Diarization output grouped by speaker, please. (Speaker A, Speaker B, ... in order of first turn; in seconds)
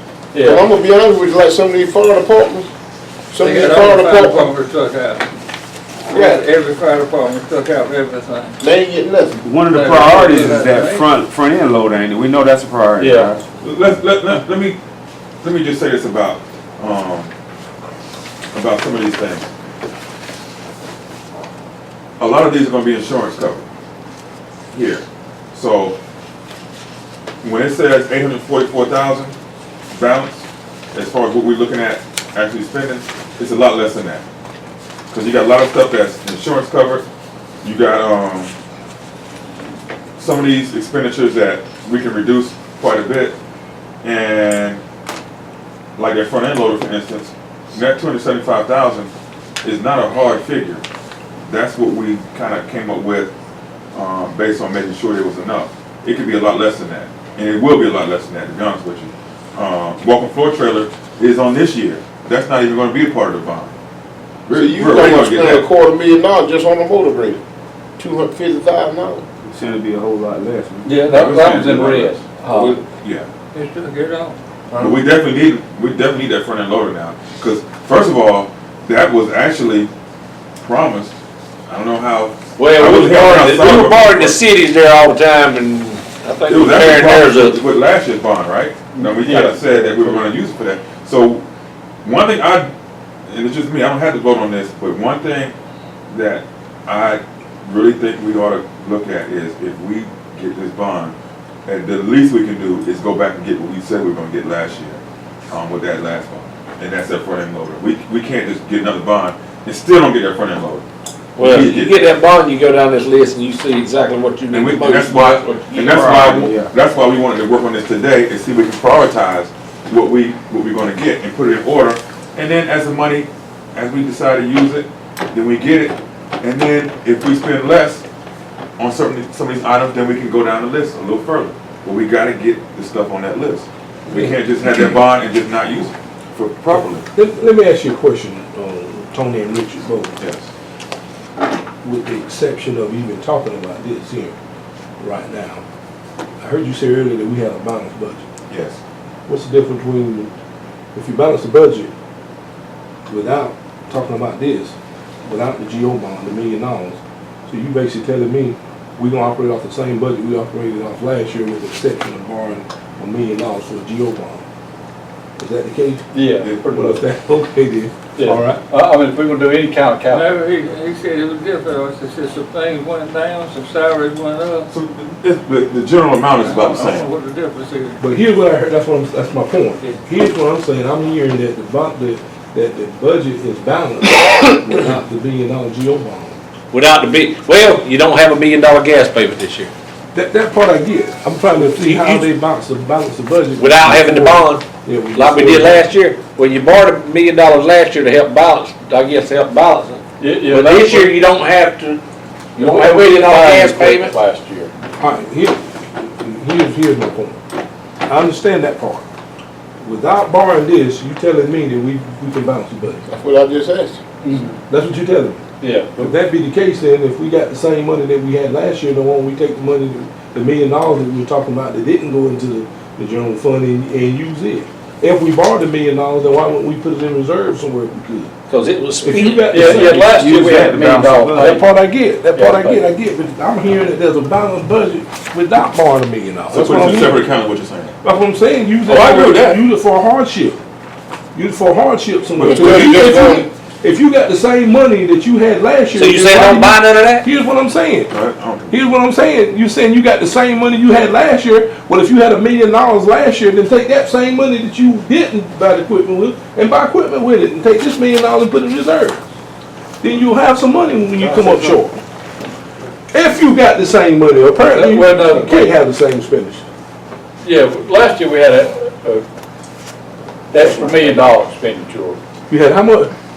Speaker A: 0.3-0.7, 13.0-13.3, 70.8-72.8, 88.9-90.3, 166.1-167.0, 168.2-170.4, 200.2-201.2, 202.6-204.7, 214.2-214.6, 215.6-216.1, 229.4-231.7, 232.2-232.9, 261.2-261.8, 264.6-265.8, 267.4-269.2, 270.5-272.2
Speaker B: 0.4-2.7, 3.3-4.5, 6.1-6.4, 8.6-9.4, 64.5-67.4, 68.0-69.2, 72.5-72.8, 74.7-75.0, 213.1-214.0, 242.4-243.5
Speaker C: 3.4-5.2, 6.1-8.6, 9.7-11.1, 73.5-74.4, 170.1-174.7, 176.4-178.0
Speaker D: 9.4-13.4, 69.5-71.0, 115.8-116.7, 230.0-231.6
Speaker E: 13.6-14.8, 15.4-17.3, 18.5-19.5, 22.2-23.6, 24.7-26.0, 27.4-29.4, 29.9-34.2, 35.1-37.1, 37.6-38.5, 40.2-43.4, 44.0-44.8, 46.0-49.1, 49.6-50.8, 51.4-53.3, 53.9-63.7, 64.5-65.7, 71.1-72.1, 73.0-73.3, 74.8-79.9, 80.6-81.2, 81.7-84.4, 86.5-91.5, 92.0-92.7, 93.3-95.5, 96.1-101.2, 101.7-110.9, 111.4-112.1, 114.5-128.1, 128.8-137.1, 140.2-140.5, 148.5-148.8, 174.7-177.1, 236.5-238.0, 238.9-239.6, 242.3-243.1, 248.1-248.8
Speaker F: 82.6-87.6, 111.4-116.5, 186.7-189.7, 191.8-192.3, 193.6-202.0, 202.6-204.1, 228.5-230.1, 245.9-247.3
Speaker G: 134.1-135.0, 137.1-140.2, 141.8-144.3, 145.0-145.6, 146.4-148.2, 149.3-150.3, 150.9-151.9, 153.1-164.4, 165.4-166.1, 166.7-168.6, 178.0-186.4, 190.1-195.8, 205.0-207.4, 208.1-209.1, 209.8-213.0, 214.7-215.4, 216.0-228.3, 229.0-230.0, 231.3-237.3, 238.0-240.6, 241.3-248.1, 248.7-259.2, 260.0-262.0, 263.1-266.6, 272.5-273.1